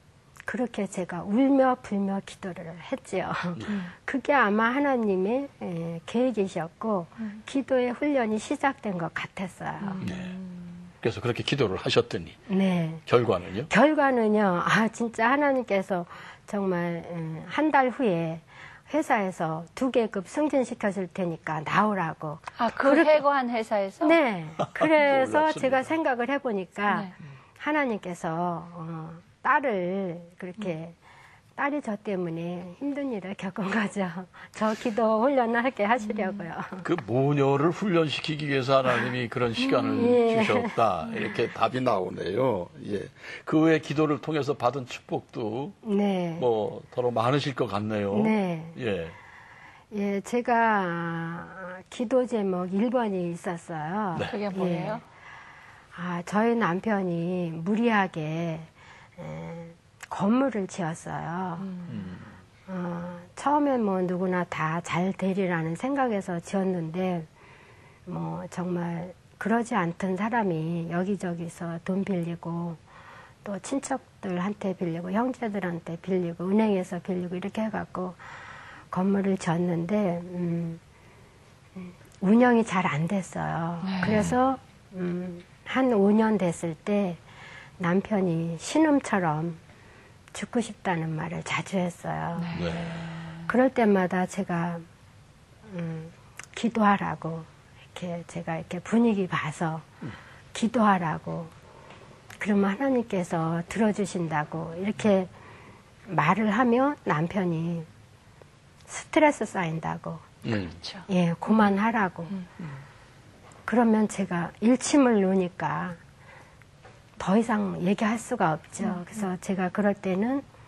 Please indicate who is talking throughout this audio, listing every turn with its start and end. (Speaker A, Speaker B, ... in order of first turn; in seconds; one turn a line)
Speaker A: 0.5-10.1
Speaker B: 9.8-10.8
Speaker C: 10.0-10.3
Speaker C: 11.0-12.4
Speaker A: 12.5-13.0
Speaker C: 13.1-13.7
Speaker A: 13.7-23.2
Speaker B: 22.6-24.2
Speaker A: 24.0-31.0
Speaker C: 24.6-25.9
Speaker B: 26.9-27.1
Speaker A: 31.6-36.9
Speaker C: 36.8-45.8
Speaker B: 39.7-40.2
Speaker A: 39.9-40.7
Speaker A: 45.8-46.5
Speaker C: 46.4-49.2
Speaker A: 48.1-48.8
Speaker A: 49.9-55.0
Speaker B: 54.3-55.0
Speaker A: 55.9-61.7
Speaker B: 61.6-62.1
Speaker C: 61.9-62.3
Speaker A: 62.7-67.3
Speaker A: 68.1-72.8
Speaker A: 73.4-78.2
Speaker A: 78.9-80.8
Speaker A: 81.8-87.2
Speaker B: 83.8-84.3
Speaker C: 84.1-84.3
Speaker A: 87.8-89.6
Speaker A: 90.3-92.6
Speaker B: 92.3-93.5
Speaker C: 92.5-93.1
Speaker A: 93.5-94.8
Speaker A: 95.7-99.8
Speaker A: 100.5-101.5
Speaker A: 102.4-105.3
Speaker A: 106.1-107.9
Speaker A: 108.9-110.3
Speaker C: 110.5-110.8
Speaker B: 110.8-111.1
Speaker A: 111.1-112.3
Speaker A: 113.7-116.0
Speaker A: 117.2-120.4
Speaker B: 118.9-119.2